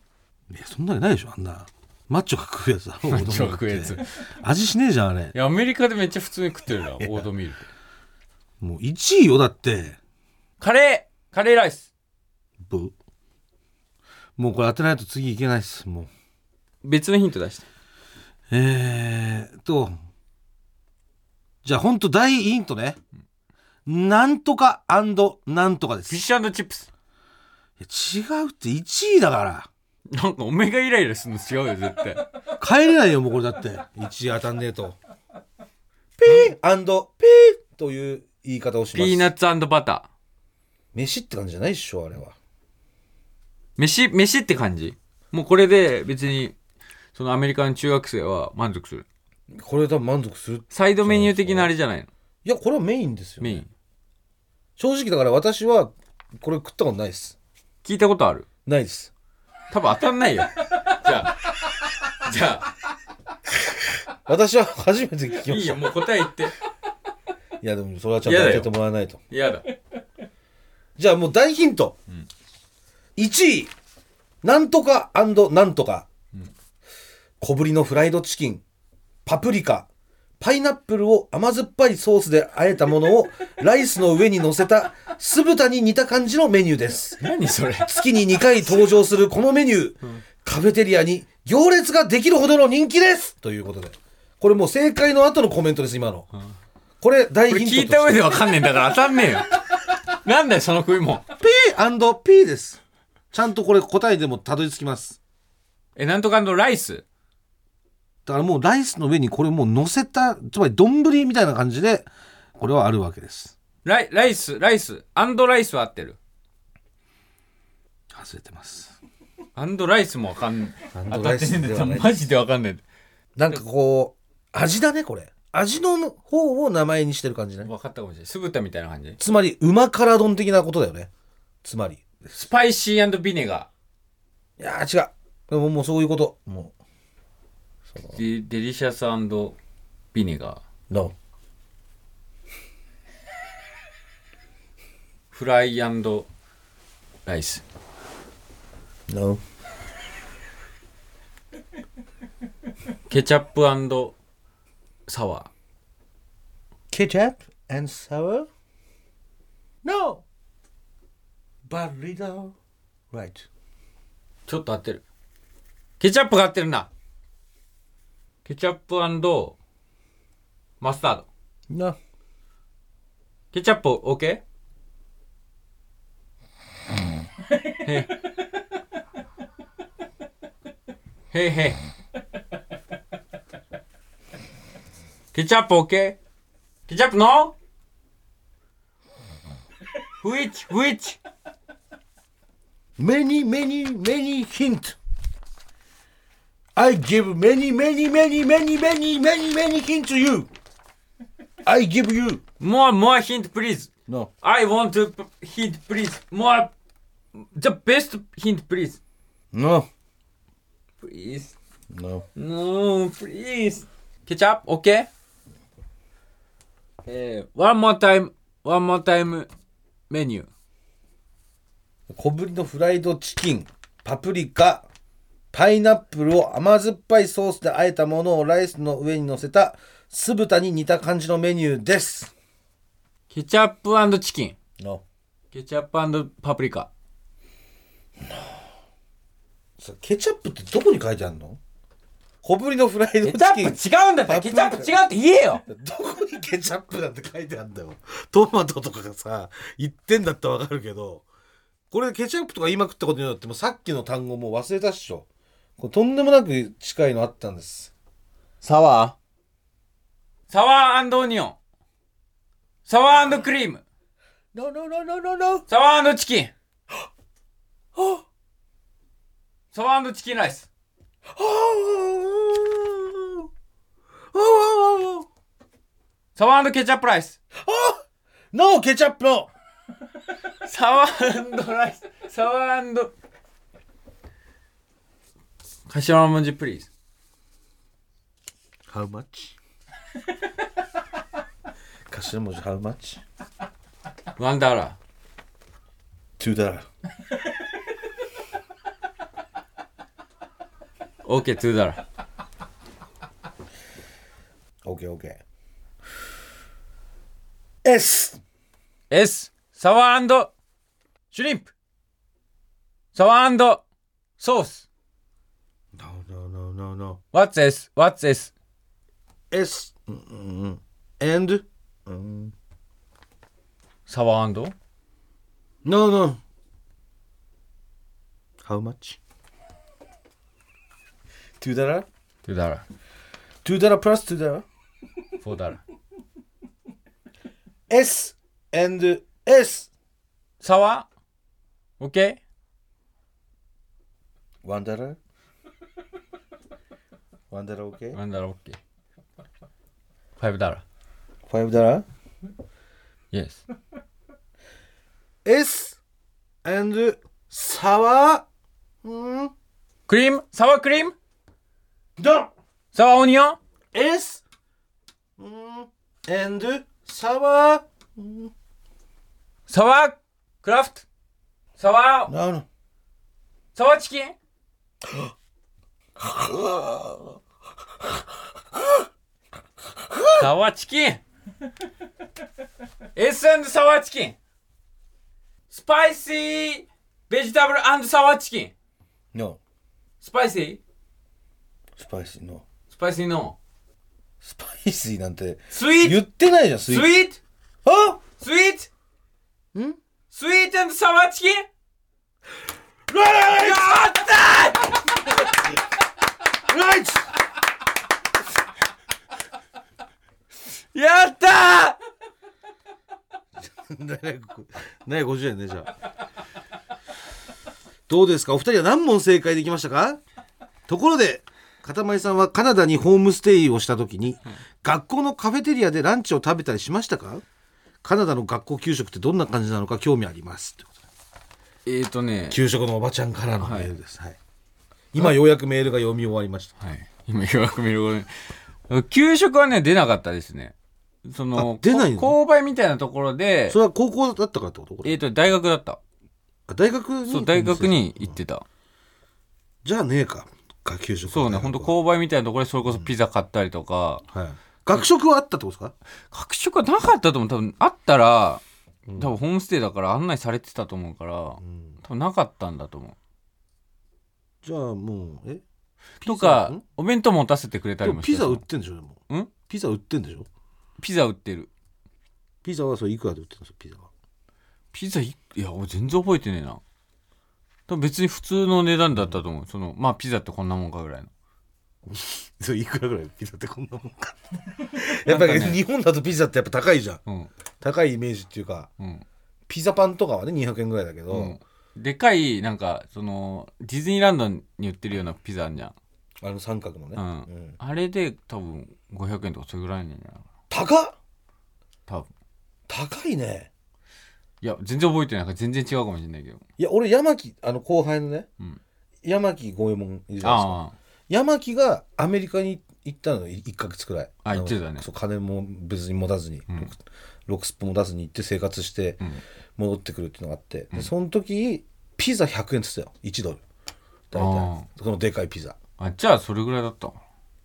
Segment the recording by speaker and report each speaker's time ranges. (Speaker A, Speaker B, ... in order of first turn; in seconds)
Speaker A: 0.5-5.3, 7.0-7.3, 8.6-10.0, 12.6-12.9, 14.4-16.1, 18.5-19.9, 21.6-23.0, 23.9-26.2, 27.8-29.7, 32.6-35.0, 36.2-39.3, 40.9-42.3, 49.5-51.7, 52.4-53.6, 54.8-57.3, 58.6-59.1, 64.1-65.9, 67.6-69.2, 71.0-72.0, 73.2-73.7, 74.4-76.1, 77.4-78.6, 79.2-79.9, 80.4-87.2, 87.8-96.3, 97.0-98.5, 101.4-102.8, 103.3-105.2, 108.2-112.1, 112.6-113.5, 118.1-119.0, 120.9-122.2, 123.3-127.7, 129.2-131.1, 131.6-132.2, 134.6-136.7, 149.1-149.4, 156.9-158.5, 159.8-160.2, 161.7-162.5, 163.1-163.5, 171.7-172.0, 193.0-195.0, 196.8-200.5, 201.6-202.4, 209.5-209.9, 211.9-212.2, 222.1-224.9, 225.5-232.3, 234.8-235.0, 239.8-241.6, 242.4-245.0, 245.7-251.2, 251.9-255.3, 255.8-257.9, 264.5-265.6, 267.9-268.2, 271.3-273.5, 274.3-275.3, 277.6-279.5, 288.9-289.6, 292.1-293.2, 296.4-296.9, 304.8-305.4, 307.8-308.4, 315.9-317.2, 319.5-322.5, 325.8-326.4, 328.6-329.2, 331.6-332.1, 333.6-334.6, 337.9-339.9, 344.6-345.2, 347.5-348.2, 351.5-352.0, 355.4-356.0, 356.6-358.4, 359.0-359.5, 362.2-362.5, 363.9-364.4, 365.4-368.5, 372.3-372.6, 375.1-375.3, 376.2-377.4, 378.7-379.0, 380.0-380.5, 389.3-389.6, 392.0-392.6, 394.4-397.1, 397.8-398.2, 403.1-404.1, 406.6-407.3, 413.6-415.9, 418.1-420.2, 420.9-427.4, 428.0-431.0, 432.5-434.4, 435.1-436.8, 441.5-442.4, 443.7-445.1, 446.7-448.4, 449.8-451.9, 454.3-455.9, 459.1-459.3, 461.6-461.9, 464.6-465.6, 466.2-466.8, 468.0-470.5, 472.6-474.1, 482.0-487.2, 487.8-488.9, 489.7-491.6, 496.4-497.8, 500.7-501.1, 502.9-503.7, 506.8-508.5, 509.2-510.8, 511.3-519.2, 519.8-523.6, 524.3-525.8
Speaker B: 3.1-4.2, 5.3-7.7, 10.6-11.9, 16.8-17.6, 26.1-26.9, 30.1-32.3, 38.9-40.1, 43.8-46.5, 47.1-49.0, 50.7-52.1, 53.4-53.7, 57.8-58.5, 59.7-62.7, 65.5-66.5, 68.2-68.7, 69.3-69.7, 87.2-88.0, 97.5-101.2, 106.0-107.0, 113.8-116.2, 119.5-122.8, 127.6-129.2, 132.3-133.7, 138.1-139.6, 140.1-140.6, 145.3-146.3, 147.2-147.6, 153.1-154.1, 155.1-155.5, 164.5-165.0, 166.0-166.9, 168.4-169.6, 170.8-171.3, 173.5-174.4, 177.8-178.2, 181.3-181.8, 185.3-186.2, 186.9-187.5, 190.2-191.2, 202.6-203.9, 204.4-206.7, 207.3-209.0, 211.0-211.5, 212.3-215.1, 217.0-219.5, 220.1-220.5, 233.3-234.5, 235.5-236.9, 243.2-245.6, 258.6-259.1, 260.5-261.6, 262.9-263.8, 265.7-266.5, 269.7-270.7, 276.4-277.4, 280.6-283.1, 285.9-286.9, 294.4-295.0, 301.2-302.0, 309.1-310.5, 311.3-311.7, 313.1-313.8, 314.4-314.8, 317.3-318.5, 324.1-324.7, 332.4-332.8, 335.4-335.8, 340.6-341.1, 342.0-342.4, 348.1-348.8, 350.4-350.8, 353.3-353.6, 360.1-361.1, 362.9-363.6, 369.7-371.0, 371.8-372.3, 373.7-374.3, 380.3-381.2, 383.1-384.4, 385.7-388.7, 390.2-390.8, 392.9-393.6, 395.7-396.2, 396.9-397.4, 398.4-398.9, 400.3-401.6, 403.5-405.3, 410.9-412.0, 431.9-432.6, 433.6-433.9, 436.8-438.3, 438.9-440.7, 441.2-443.8, 445.0-446.0, 447.3-448.6, 451.3-454.2, 456.3-458.6, 459.1-463.1, 466.2-468.6, 471.0-471.7, 474.9-476.8, 477.9-481.3, 485.2-485.8, 491.3-495.9, 497.1-500.5, 504.6-506.6, 510.4-510.9, 514.4-515.1, 524.3-524.9, 526.0-527.2